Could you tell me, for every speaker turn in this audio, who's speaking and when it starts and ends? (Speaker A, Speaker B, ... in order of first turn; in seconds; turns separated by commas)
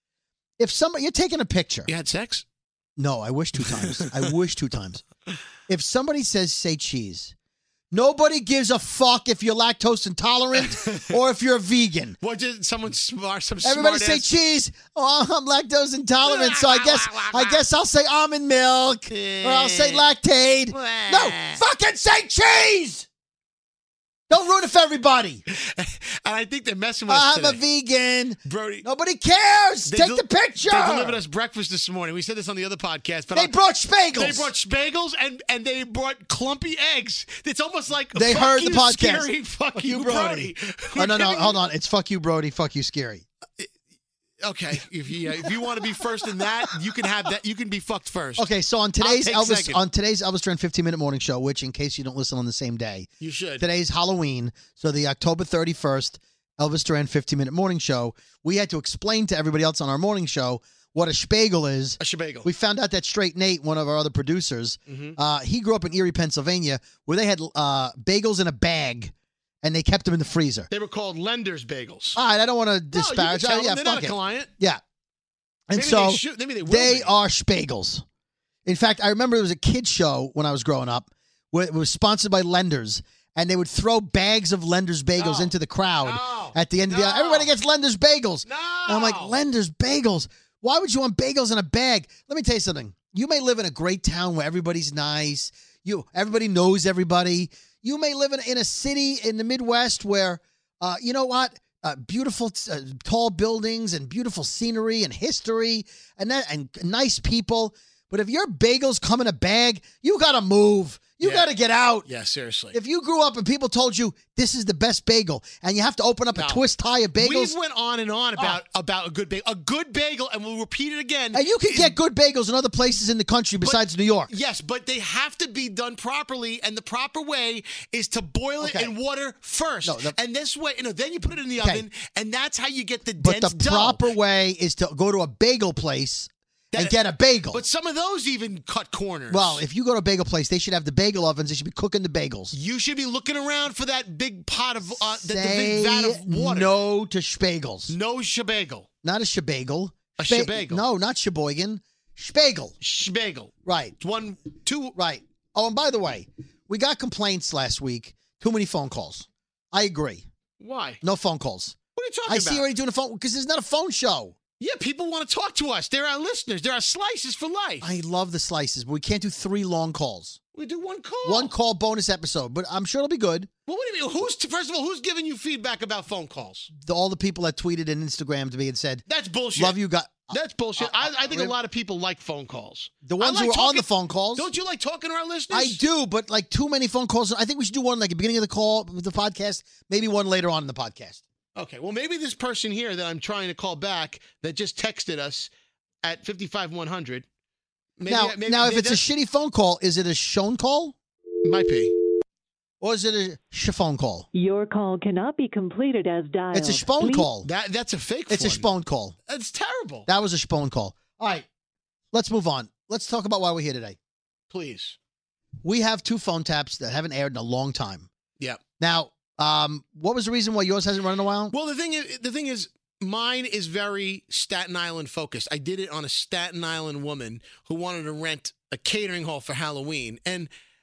Speaker A: 0.6-1.9, Speaker B: 1.9-2.4, Speaker A: 3.0-5.0, Speaker B: 3.7-4.1, Speaker A: 5.7-7.3, Speaker A: 7.9-12.2, Speaker B: 12.2-14.3, Speaker A: 13.6-23.1, Speaker B: 16.2-17.6, Speaker B: 19.1-20.1, Speaker B: 20.7-21.6, Speaker A: 24.3-25.4, Speaker B: 25.5-27.6, Speaker A: 27.1-31.2, Speaker B: 28.4-28.9, Speaker B: 29.9-33.5, Speaker A: 33.3-34.5, Speaker B: 34.1-41.6, Speaker A: 38.1-43.2, Speaker B: 44.4-48.5, Speaker A: 48.4-53.1, Speaker B: 49.0-49.8, Speaker B: 53.2-53.6, Speaker A: 53.6-70.7, Speaker B: 62.0-62.5, Speaker B: 64.9-65.2, Speaker B: 70.7-72.2, Speaker A: 72.1-74.8, Speaker B: 72.9-74.5, Speaker A: 75.7-78.0, Speaker B: 75.7-77.1, Speaker A: 78.7-112.1, Speaker B: 85.2-87.5, Speaker B: 88.5-89.4, Speaker B: 111.2-111.5, Speaker B: 112.0-112.8, Speaker A: 112.7-117.5, Speaker B: 116.3-116.6, Speaker B: 117.2-121.9, Speaker A: 121.3-124.3, Speaker B: 123.6-134.0, Speaker A: 128.6-128.9, Speaker A: 129.8-130.2, Speaker A: 131.6-131.8, Speaker A: 133.2-137.6, Speaker B: 137.5-139.6, Speaker A: 139.3-142.6, Speaker B: 142.5-146.7, Speaker A: 144.9-147.9, Speaker B: 147.9-148.9, Speaker A: 149.0-152.8, Speaker B: 150.2-150.8, Speaker B: 152.8-154.9, Speaker A: 153.6-154.0, Speaker A: 154.9-160.3, Speaker B: 160.6-161.0, Speaker A: 161.0-164.4, Speaker B: 161.9-162.7, Speaker B: 164.6-167.9, Speaker A: 167.8-170.4, Speaker B: 170.5-171.5, Speaker A: 171.2-173.5, Speaker B: 173.7-176.7, Speaker A: 176.7-181.6, Speaker B: 179.1-185.8, Speaker A: 183.0-184.5, Speaker A: 185.5-191.2, Speaker B: 191.5-195.5, Speaker B: 196.0-197.2, Speaker B: 198.0-199.0, Speaker A: 198.1-200.9, Speaker B: 201.4-201.9, Speaker A: 202.8-204.3, Speaker C: 204.3-207.3, Speaker A: 206.5-207.5, Speaker B: 207.4-208.7, Speaker A: 208.3-209.1, Speaker B: 209.3-210.1, Speaker A: 210.1-211.4, Speaker A: 212.1-214.0, Speaker B: 214.5-214.9, Speaker A: 215.6-218.1, Speaker A: 218.8-221.5, Speaker B: 221.5-230.5